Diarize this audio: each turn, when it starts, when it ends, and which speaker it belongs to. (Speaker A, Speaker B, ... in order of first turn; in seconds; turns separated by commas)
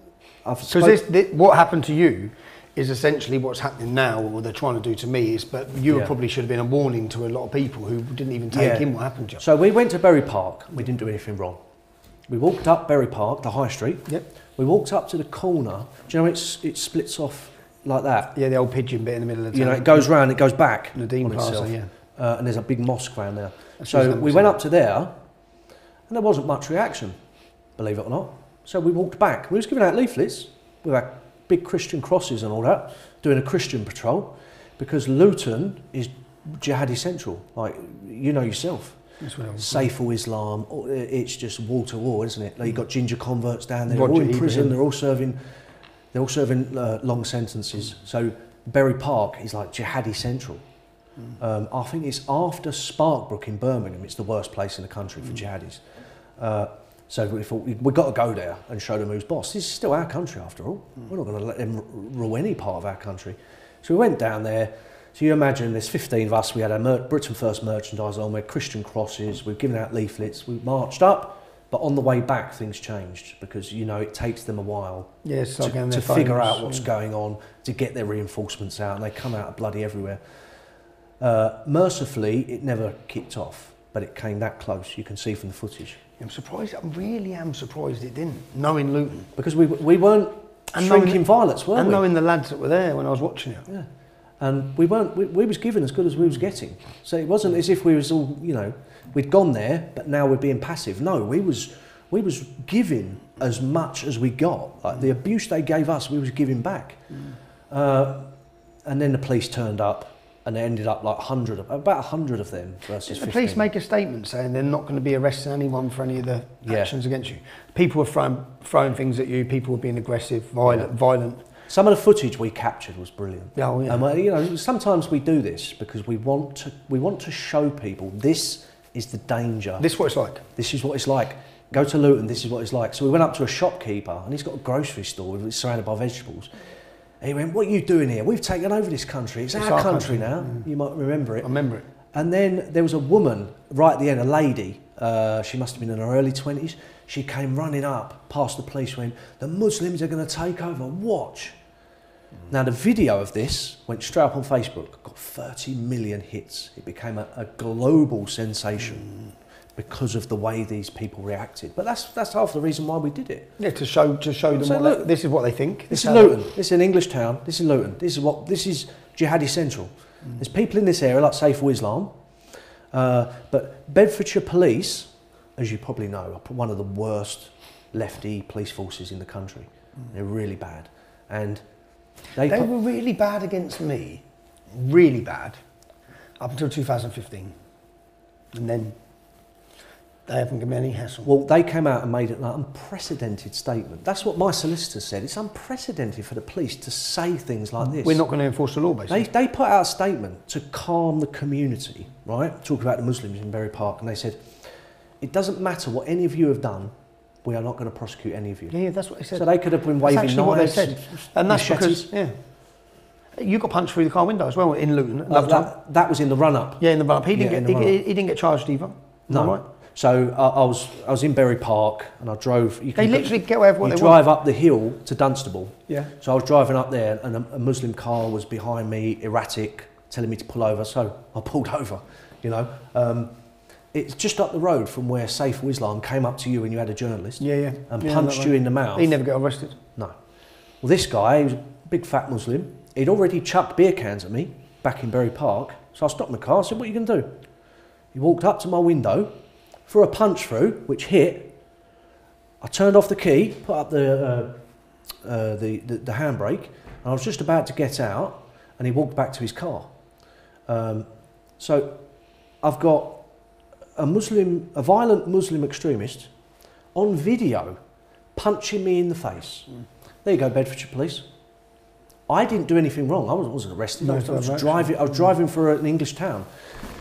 Speaker A: 0.4-1.0, Speaker B: 0.7-9.4, Speaker A: 8.5-11.6, Speaker A: 12.3-18.3, Speaker B: 18.3-20.1, Speaker A: 19.5-25.1, Speaker B: 20.9-21.9, Speaker B: 23.8-24.6, Speaker A: 26.1-27.1, Speaker A: 27.8-39.0, Speaker B: 39.2-39.9, Speaker A: 39.6-45.4, Speaker B: 43.9-44.8, Speaker A: 46.1-50.6, Speaker A: 51.4-55.8, Speaker A: 56.4-80.2, Speaker B: 75.2-76.9, Speaker A: 81.2-86.0, Speaker B: 86.2-89.3, Speaker A: 89.3-92.0, Speaker B: 90.7-93.7, Speaker A: 94.4-107.1, Speaker A: 107.7-108.3, Speaker A: 108.8-113.7, Speaker B: 113.0-121.5, Speaker A: 116.6-116.9, Speaker A: 121.7-129.8, Speaker B: 123.5-124.1, Speaker B: 129.8-130.4, Speaker A: 130.6-136.5, Speaker A: 137.2-141.5, Speaker B: 139.6-140.7, Speaker B: 141.4-141.8, Speaker A: 142.1-151.6, Speaker A: 152.5-159.1, Speaker A: 159.8-163.5, Speaker B: 163.6-166.4, Speaker A: 164.5-165.1, Speaker A: 165.9-172.1, Speaker A: 172.9-181.6, Speaker A: 182.3-182.7, Speaker B: 182.5-185.6, Speaker B: 186.4-187.6, Speaker B: 188.5-189.0, Speaker B: 190.2-191.3, Speaker A: 191.2-198.2, Speaker B: 197.8-199.2, Speaker A: 199.1-204.6, Speaker A: 205.2-206.9, Speaker A: 207.4-208.7, Speaker B: 208.7-212.4, Speaker A: 209.3-212.1, Speaker B: 213.3-215.7, Speaker A: 215.3-218.0, Speaker B: 216.8-219.6, Speaker A: 219.3-233.3, Speaker B: 223.0-224.2, Speaker A: 233.9-239.2, Speaker B: 237.4-239.8, Speaker A: 240.8-247.3, Speaker A: 248.1-249.3, Speaker A: 249.9-251.5, Speaker A: 252.6-254.5, Speaker A: 255.2-259.9, Speaker A: 260.7-261.1, Speaker A: 261.6-262.0, Speaker A: 262.6-263.2, Speaker A: 263.9-266.3, Speaker A: 266.9-267.8, Speaker A: 268.3-269.7, Speaker A: 270.2-271.2, Speaker A: 272.3-276.5, Speaker B: 274.0-275.0